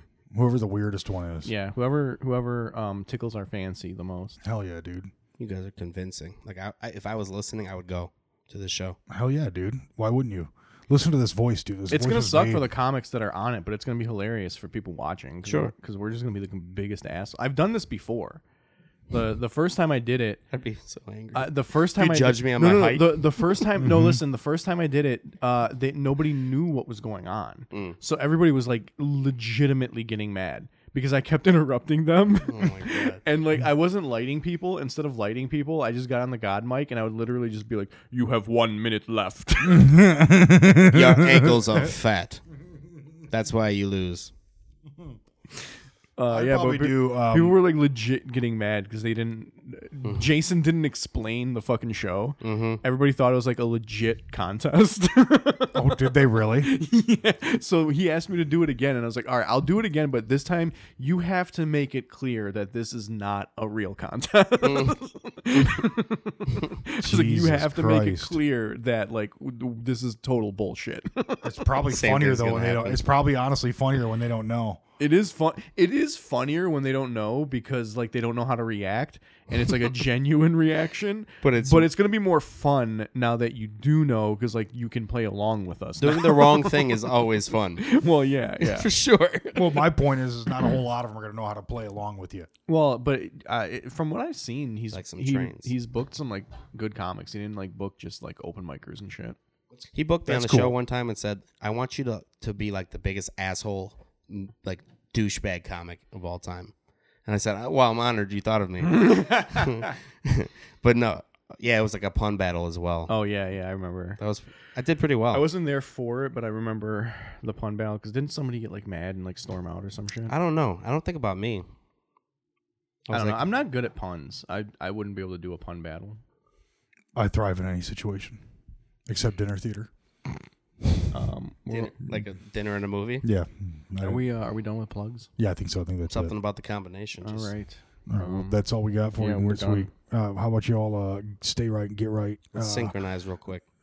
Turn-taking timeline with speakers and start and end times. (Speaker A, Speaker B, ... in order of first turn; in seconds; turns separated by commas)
Speaker A: 0.3-1.5, Speaker B: 1.4-4.4, Speaker A: 4.4-5.1, Speaker C: 5.4-9.0, Speaker A: 9.1-12.7, Speaker B: 11.9-18.4, Speaker C: 15.4-15.7, Speaker B: 19.1-20.4, Speaker C: 20.5-23.2, Speaker B: 21.3-40.0, Speaker A: 23.8-24.2, Speaker C: 27.7-28.0, Speaker C: 32.5-33.2, Speaker A: 39.6-41.9, Speaker C: 40.8-42.4, Speaker C: 43.3-44.3, Speaker B: 46.2-71.6, Speaker A: 46.3-47.6, Speaker C: 52.4-52.8, Speaker A: 55.7-56.7, Speaker C: 64.6-65.0, Speaker A: 67.0-68.4, Speaker A: 71.4-74.8, Speaker C: 71.9-73.0, Speaker B: 75.0-87.0, Speaker C: 81.4-81.9, Speaker C: 86.0-87.8, Speaker B: 87.8-88.9, Speaker C: 88.6-89.9, Speaker A: 89.5-92.5, Speaker B: 92.7-99.4, Speaker C: 94.9-95.7, Speaker C: 99.9-106.7, Speaker A: 100.3-100.7, Speaker C: 107.3-113.1, Speaker B: 108.8-109.9, Speaker B: 113.1-114.2, Speaker C: 114.2-115.5, Speaker B: 115.3-120.3, Speaker C: 120.3-121.7, Speaker C: 123.1-123.6, Speaker B: 123.1-126.2, Speaker A: 127.2-128.4, Speaker A: 129.1-129.9, Speaker B: 131.1-131.9, Speaker C: 131.7-133.2, Speaker A: 133.2-134.2, Speaker B: 134.0-135.3, Speaker A: 135.4-136.3, Speaker C: 136.1-137.5, Speaker B: 137.2-138.6, Speaker A: 138.1-142.9, Speaker B: 139.2-139.9, Speaker C: 142.5-143.6